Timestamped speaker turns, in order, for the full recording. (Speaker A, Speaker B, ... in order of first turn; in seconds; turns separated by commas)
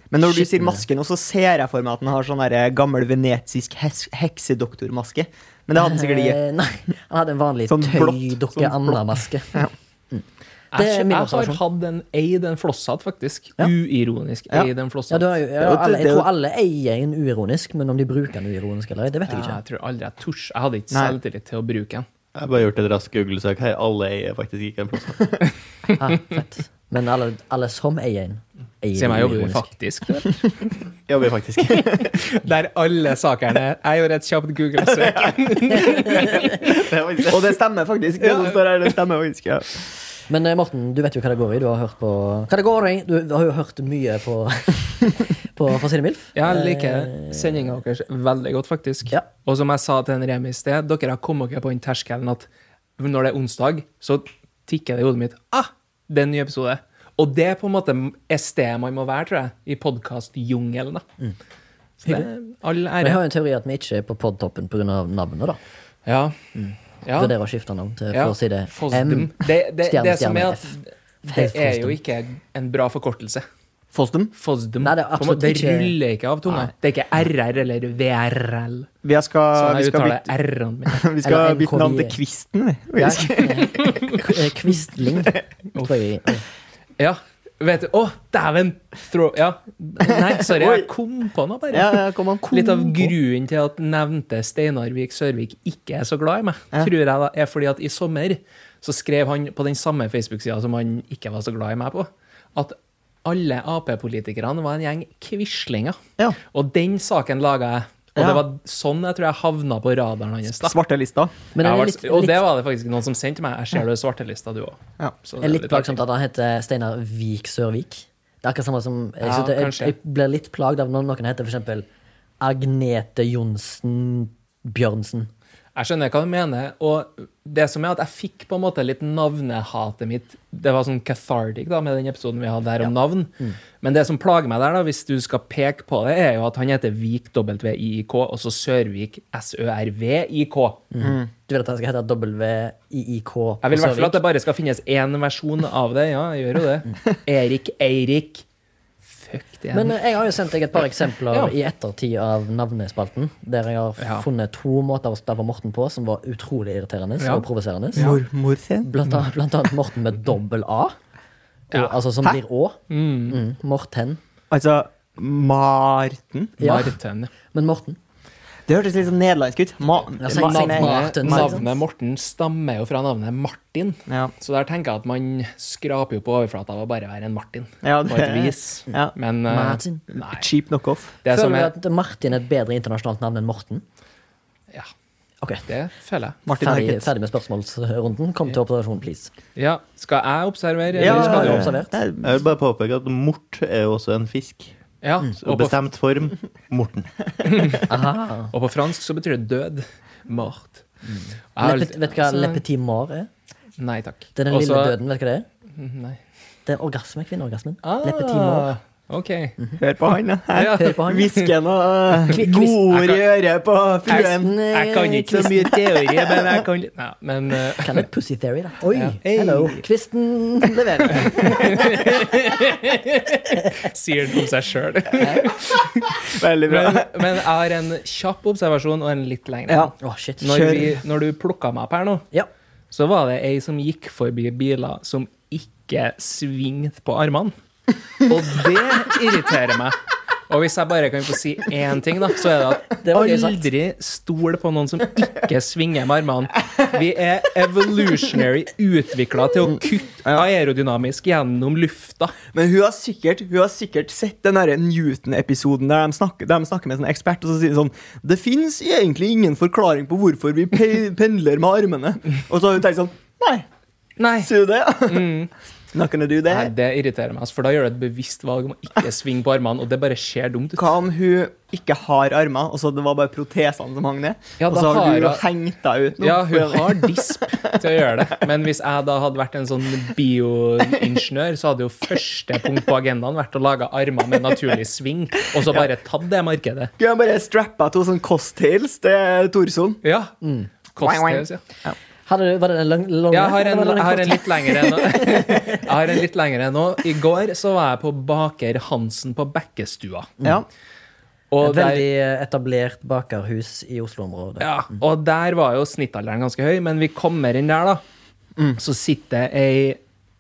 Speaker A: 0.1-6.4, Speaker B: 0.2-0.8, Speaker B: 5.8-11.6, Speaker A: 7.7-9.0, Speaker C: 10.7-15.4, Speaker B: 15.1-19.6, Speaker A: 15.6-16.3, Speaker C: 19.3-22.1, Speaker D: 22.4-25.5, Speaker B: 26.0-29.7, Speaker C: 28.9-30.4, Speaker D: 31.1-32.2, Speaker C: 31.8-36.7, Speaker A: 35.0-35.8, Speaker D: 36.3-37.4, Speaker A: 37.3-39.9, Speaker C: 38.2-38.6, Speaker B: 40.3-47.6, Speaker C: 46.4-52.5, Speaker C: 53.0-61.0, Speaker C: 62.0-63.2, Speaker B: 63.0-65.6, Speaker C: 66.1-66.4, Speaker B: 66.5-70.7, Speaker C: 67.0-67.3, Speaker C: 68.1-73.5, Speaker B: 71.2-72.0, Speaker A: 73.9-74.3, Speaker C: 74.3-78.9, Speaker B: 74.8-76.0, Speaker A: 79.0-80.3, Speaker C: 79.5-81.0, Speaker A: 80.9-83.7, Speaker B: 81.2-82.2, Speaker B: 83.0-86.4, Speaker C: 87.0-106.0, Speaker A: 90.0-90.9, Speaker A: 91.7-93.2, Speaker C: 106.5-110.8, Speaker A: 108.2-108.4, Speaker A: 110.5-111.3, Speaker B: 111.5-112.4, Speaker C: 111.6-116.0, Speaker B: 115.4-121.9, Speaker C: 119.2-119.9, Speaker B: 122.4-125.3, Speaker C: 125.8-140.9, Speaker B: 140.9-144.2, Speaker A: 141.0-141.3, Speaker C: 143.6-148.4, Speaker C: 149.1-150.0, Speaker B: 149.7-158.1, Speaker C: 154.0-154.2, Speaker C: 157.2-158.2, Speaker A: 158.0-158.9, Speaker B: 158.8-160.9, Speaker B: 161.7-164.2, Speaker C: 161.7-162.0, Speaker C: 162.9-163.4, Speaker A: 164.5-166.6, Speaker B: 166.6-166.9, Speaker C: 166.6-167.3, Speaker B: 167.5-168.0, Speaker A: 168.7-171.7, Speaker B: 170.2-171.7, Speaker C: 170.3-180.5, Speaker A: 177.8-179.1, Speaker B: 179.5-180.0, Speaker A: 180.1-181.1, Speaker C: 181.2-181.7, Speaker B: 181.3-183.8, Speaker C: 185.7-186.4, Speaker A: 186.5-187.1, Speaker B: 186.5-189.3, Speaker C: 189.6-191.8, Speaker A: 190.9-192.3, Speaker B: 191.0-191.9, Speaker D: 192.2-194.7, Speaker C: 195.0-195.8, Speaker D: 195.3-197.8, Speaker C: 197.4-197.8, Speaker B: 197.9-198.5, Speaker C: 198.5-200.8, Speaker B: 201.1-203.3, Speaker C: 201.6-202.6, Speaker C: 203.8-205.0, Speaker B: 204.4-205.5, Speaker C: 205.8-206.2, Speaker B: 206.7-208.7, Speaker C: 207.8-209.6, Speaker A: 209.8-214.6, Speaker C: 210.5-211.5, Speaker B: 210.7-211.3, Speaker B: 212.3-212.8, Speaker C: 212.9-213.3, Speaker C: 214.1-218.1, Speaker B: 214.1-215.8, Speaker A: 216.2-216.6, Speaker B: 217.8-222.1, Speaker C: 218.9-219.8, Speaker C: 221.2-232.3, Speaker A: 225.2-225.5, Speaker A: 226.2-227.2, Speaker A: 229.7-229.9, Speaker B: 230.0-230.8, Speaker A: 230.5-231.0, Speaker C: 232.9-237.5, Speaker C: 238.2-240.0, Speaker C: 240.5-252.4, Speaker B: 243.0-243.6, Speaker A: 252.5-263.7, Speaker C: 264.2-265.5, Speaker A: 264.4-265.3, Speaker A: 265.9-266.7, Speaker C: 266.5-270.9, Speaker A: 270.8-277.7, Speaker C: 274.6-275.4, Speaker C: 276.2-286.9, Speaker A: 287.0-290.0, Speaker C: 290.0-290.4, Speaker B: 290.4-290.7, Speaker C: 290.9-291.6, Speaker A: 291.0-292.0, Speaker B: 292.3-295.8, Speaker C: 293.3-300.3, Speaker C: 301.5-302.1, Speaker B: 301.6-304.7, Speaker C: 304.6-308.0, Speaker C: 308.8-310.0